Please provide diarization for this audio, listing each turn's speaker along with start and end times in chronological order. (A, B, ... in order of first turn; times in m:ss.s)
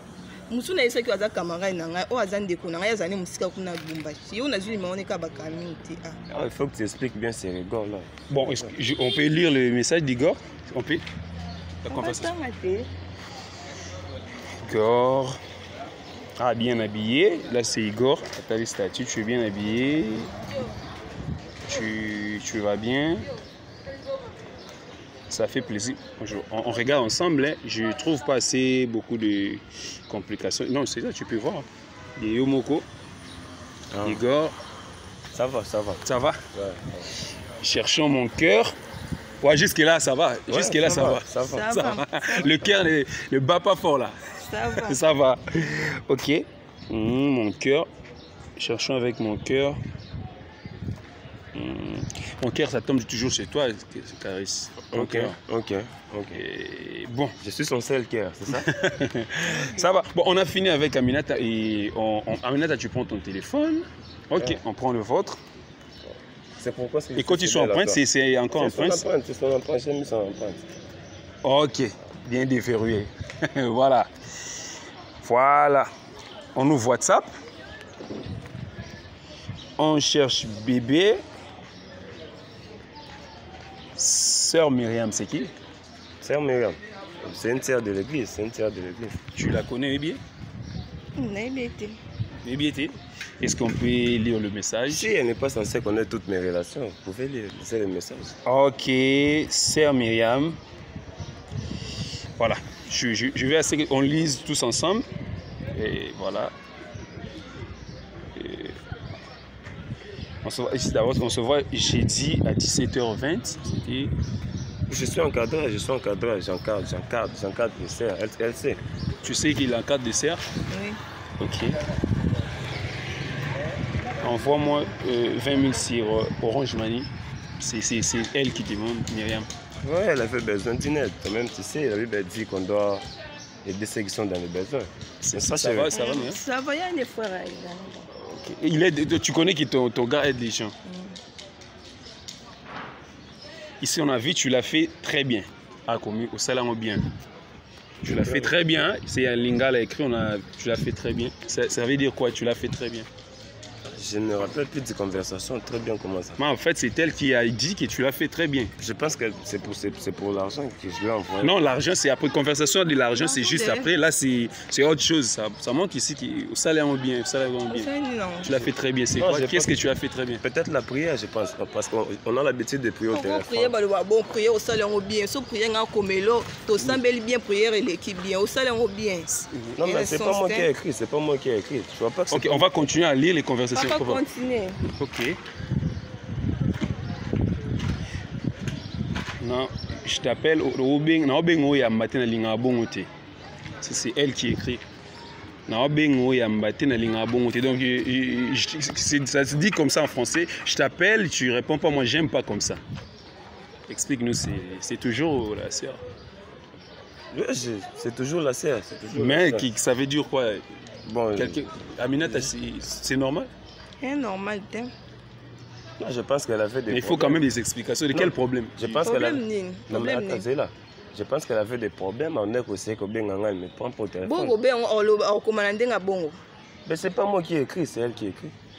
0:00.5-0:06.2 A
0:06.3-0:08.7 B
0:08.3-0:11.0 C
0:11.8-0:12.3 C
0:11.9-0:12.9 A
0:14.6-0:15.4 C
0:16.4-0:20.3 C
0:21.7-0:23.3 C
0:25.3-0:32.9 C
0:33.9-0:34.2 B
0:34.0-0:34.5 C
0:35.3-0:37.1 B
0:36.0-0:36.4 C
0:37.6-0:38.7 C
0:39.4-0:44.2 C
0:40.5-0:41.7 B
0:41.4-0:42.5 A
0:44.4-0:45.0 A
0:44.8-0:47.9 C
0:48.6-0:49.8 C
0:51.5-0:55.4 C
0:54.9-0:56.4 B
0:56.3-0:57.3 C
0:57.4-0:58.7 B
0:58.5-1:05.4 C
1:06.1-1:10.7 B
1:07.2-1:09.0 C
1:11.4-1:14.1 C
1:15.2-1:15.9 C
1:16.6-1:17.3 C
1:19.8-1:21.2 C
1:24.0-1:25.5 C
1:26.2-1:29.2 B
1:29.4-1:30.2 C
1:31.2-1:32.0 A
1:32.4-1:35.1 C
1:34.9-1:38.4 B
1:38.4-1:40.6 C
1:42.4-1:45.1 C
1:45.7-1:46.5 C
1:48.4-1:48.8 C
1:50.4-1:54.1 C
1:54.9-1:58.8 B
1:59.2-2:00.4 C
2:00.7-2:01.0 A
2:01.4-2:01.8 C
2:04.2-2:09.5 C
2:09.8-2:13.0 B
2:13.6-2:16.0 B
2:15.2-2:16.4 C
2:15.9-2:18.1 A
2:18.2-2:20.7 C
2:20.8-2:21.2 A
2:23.8-2:27.0 C
2:28.0-2:33.1 C
2:28.2-2:28.5 B
2:33.9-2:36.4 B
2:36.4-2:38.7 C
2:38.8-2:41.6 B
2:41.4-2:47.9 C
2:43.1-2:43.9 A
2:47.7-2:48.6 A
2:48.4-2:50.4 C
2:49.2-2:49.8 B
2:50.4-2:53.8 B
2:53.1-2:59.3 A
2:59.3-2:59.8 C
2:59.8-3:02.7 B
2:59.8-3:00.7 A
3:02.3-3:04.2 C
3:03.7-3:04.8 A
3:05.0-3:05.4 C
3:09.4-3:13.1 C
3:13.8-3:14.8 C
3:15.7-3:22.8 C
3:23.9-3:26.0 C
3:27.3-3:29.7 B
3:29.1-3:30.6 C
3:31.0-3:31.6 B
3:31.4-3:33.5 C
3:32.2-3:32.5 B
3:34.0-3:34.9 A
3:36.0-3:37.5 B
3:36.9-3:39.1 C
3:38.1-3:44.6 B
3:39.0-3:40.4 A
3:44.2-3:46.4 A
3:46.9-3:48.5 B